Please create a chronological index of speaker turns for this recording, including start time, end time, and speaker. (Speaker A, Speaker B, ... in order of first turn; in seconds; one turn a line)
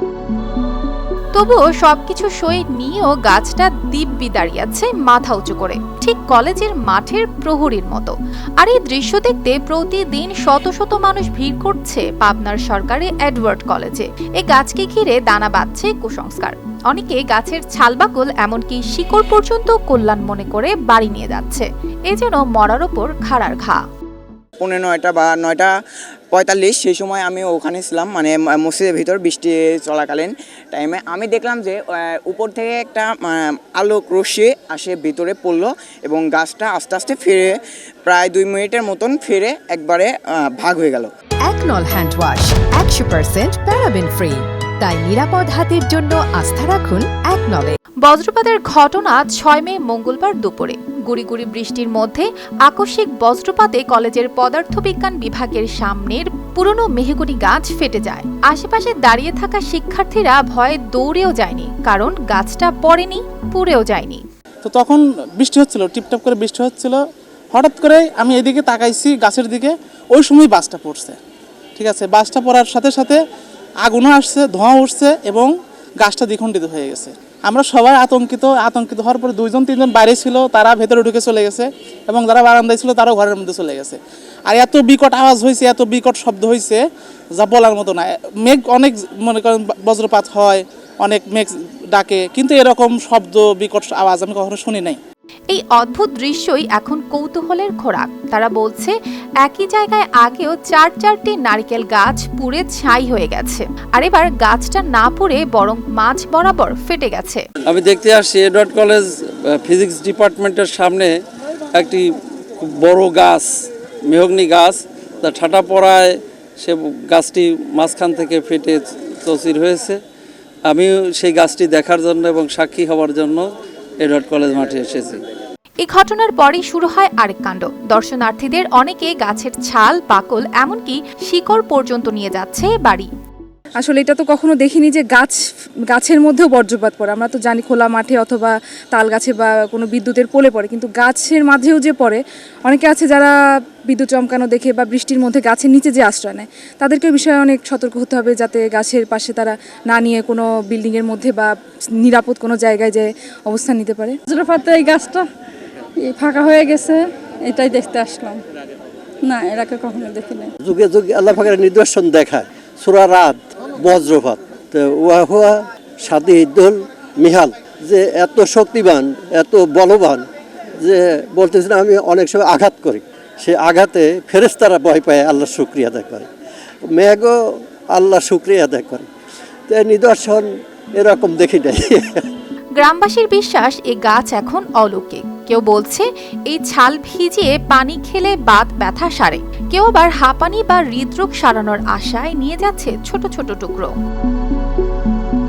Speaker A: 1.3-23.8
Speaker B: 24.6-25.7
Speaker B: 26.3-41.1
Speaker C: 41.4-47.8
Speaker A: 48.0-64.2
Speaker D: 64.6-67.0
Speaker D: 67.5-71.2
Speaker D: 71.8-73.2
Speaker D: 73.8-86.8
Speaker D: 87.4-95.0
Speaker A: 95.5-107.4
Speaker E: 107.7-111.1
Speaker E: 111.7-112.0
Speaker E: 112.6-120.0
Speaker E: 120.7-123.5
Speaker E: 124.0-125.2
Speaker A: 125.8-133.1
Speaker F: 133.8-135.4
Speaker F: 135.9-143.3
Speaker F: 143.9-154.2
Speaker G: 154.3-155.3
Speaker G: 156.0-158.4
Speaker G: 159.2-160.5
Speaker H: 160.6-170.2
Speaker H: 170.8-176.3
Speaker H: 176.9-179.1
Speaker H: 179.7-182.3
Speaker A: 182.8-193.9